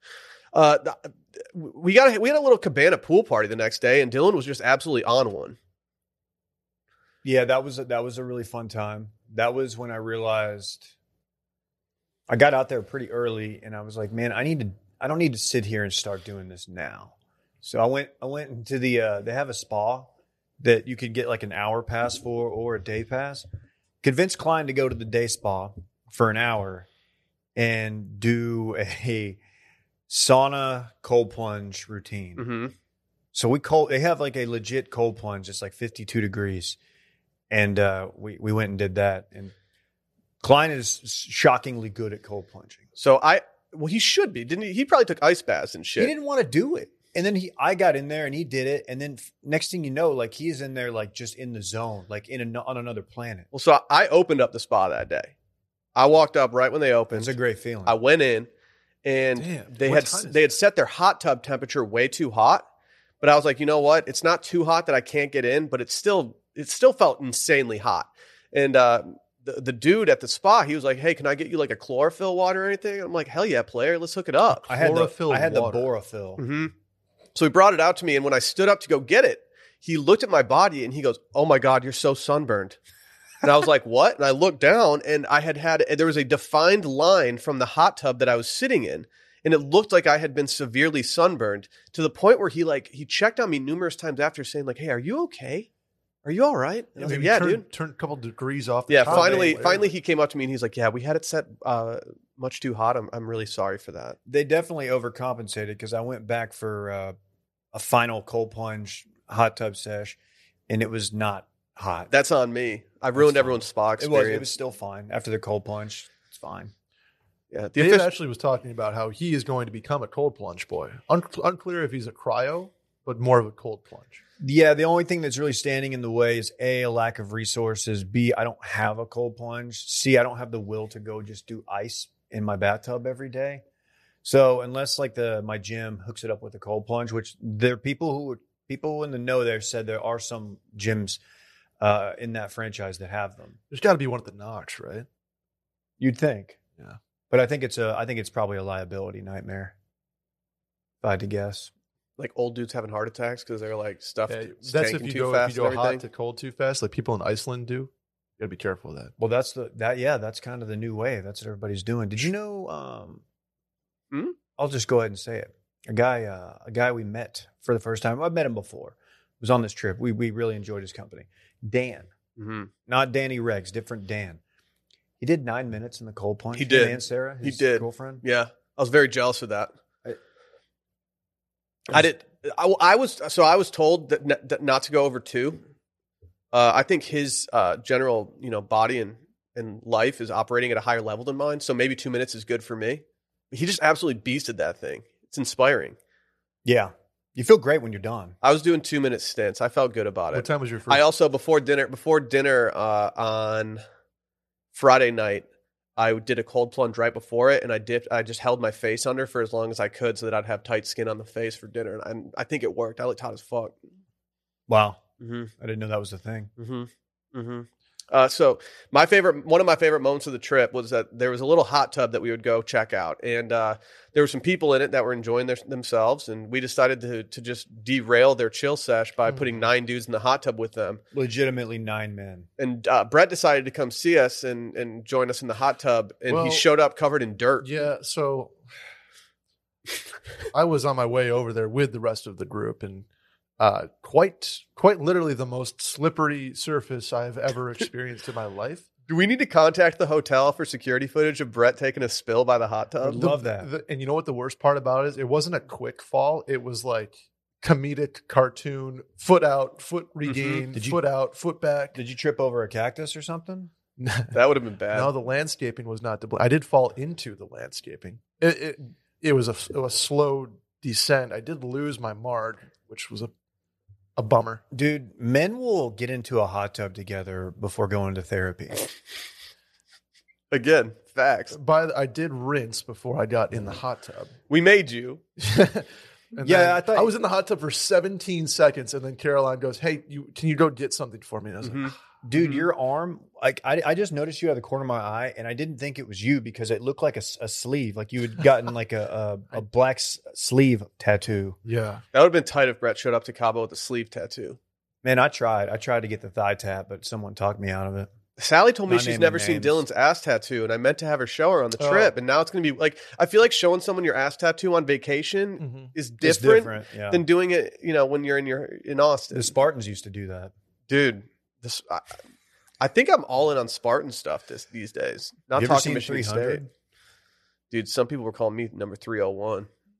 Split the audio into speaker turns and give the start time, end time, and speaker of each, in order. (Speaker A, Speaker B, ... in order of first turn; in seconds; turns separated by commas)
Speaker A: 0.5-5.6, Speaker B: 7.2-10.9, Speaker B: 12.3-23.4, Speaker B: 24.0-26.9, Speaker B: 27.6-29.4, Speaker B: 30.1-32.4, Speaker A: 32.4-32.7, Speaker B: 33.3-36.8, Speaker B: 37.5-39.5, Speaker B: 40.4-42.8, Speaker A: 43.0-46.1, Speaker B: 46.0-53.5, Speaker A: 53.5-55.3, Speaker A: 55.9-57.3, Speaker B: 57.1-58.0, Speaker A: 57.9-58.5, Speaker A: 59.0-62.7, Speaker C: 59.4-60.4, Speaker A: 63.2-74.7, Speaker C: 74.7-75.9, Speaker B: 74.7-76.4, Speaker A: 76.4-76.7, Speaker A: 77.3-82.8, Speaker A: 83.4-95.7, Speaker A: 96.2-97.6, Speaker C: 97.0-99.9, Speaker A: 98.9-104.2, Speaker B: 99.1-99.4, Speaker B: 104.3-107.1, Speaker B: 107.7-110.2, Speaker B: 110.7-112.1, Speaker A: 112.1-114.5, Speaker B: 113.2-116.7, Speaker A: 117.5-118.1, Speaker C: 117.8-124.2, Speaker B: 124.4-133.6, Speaker B: 134.2-141.2, Speaker B: 141.8-143.6, Speaker C: 143.7-145.1, Speaker B: 146.0-146.6, Speaker B: 147.3-149.7, Speaker B: 151.0-151.7, Speaker A: 152.2-156.0, Speaker C: 154.3-159.1, Speaker B: 159.2-163.2, Speaker B: 164.6-172.1, Speaker A: 172.4-172.7, Speaker B: 172.9-174.4, Speaker B: 175.2-178.2, Speaker A: 176.5-179.7, Speaker A: 181.9-185.6, Speaker A: 186.5-196.0, Speaker B: 196.6-198.3, Speaker A: 198.4-203.8, Speaker C: 200.3-201.0, Speaker A: 204.7-213.8, Speaker B: 214.7-215.0, Speaker A: 215.2-215.5, Speaker B: 215.6-216.5, Speaker A: 216.6-231.0, Speaker C: 229.3-229.6, Speaker B: 231.1-232.5, Speaker A: 232.6-237.7, Speaker C: 236.3-236.7, Speaker C: 237.6-238.6, Speaker C: 240.5-243.1, Speaker C: 243.6-248.9, Speaker A: 249.1-253.3, Speaker B: 253.0-253.7, Speaker C: 253.2-262.0, Speaker A: 260.2-260.6, Speaker B: 260.7-261.0, Speaker B: 261.9-263.7, Speaker C: 264.0-264.4, Speaker A: 264.3-265.1, Speaker C: 264.9-273.3, Speaker C: 274.2-274.6, Speaker B: 274.7-278.9, Speaker A: 280.5-281.6, Speaker C: 281.5-284.3, Speaker A: 284.5-285.2, Speaker C: 285.4-291.9, Speaker B: 286.4-287.1, Speaker A: 291.6-292.6, Speaker B: 292.2-301.6, Speaker C: 301.6-302.0, Speaker A: 302.1-304.6, Speaker B: 305.0-308.1, Speaker A: 308.4-319.5, Speaker B: 308.9-309.8, Speaker C: 311.8-312.1, Speaker C: 315.6-315.9, Speaker B: 316.2-317.2, Speaker B: 319.3-320.5, Speaker A: 320.9-322.2, Speaker A: 322.8-326.6, Speaker B: 325.5-326.7, Speaker A: 327.7-329.7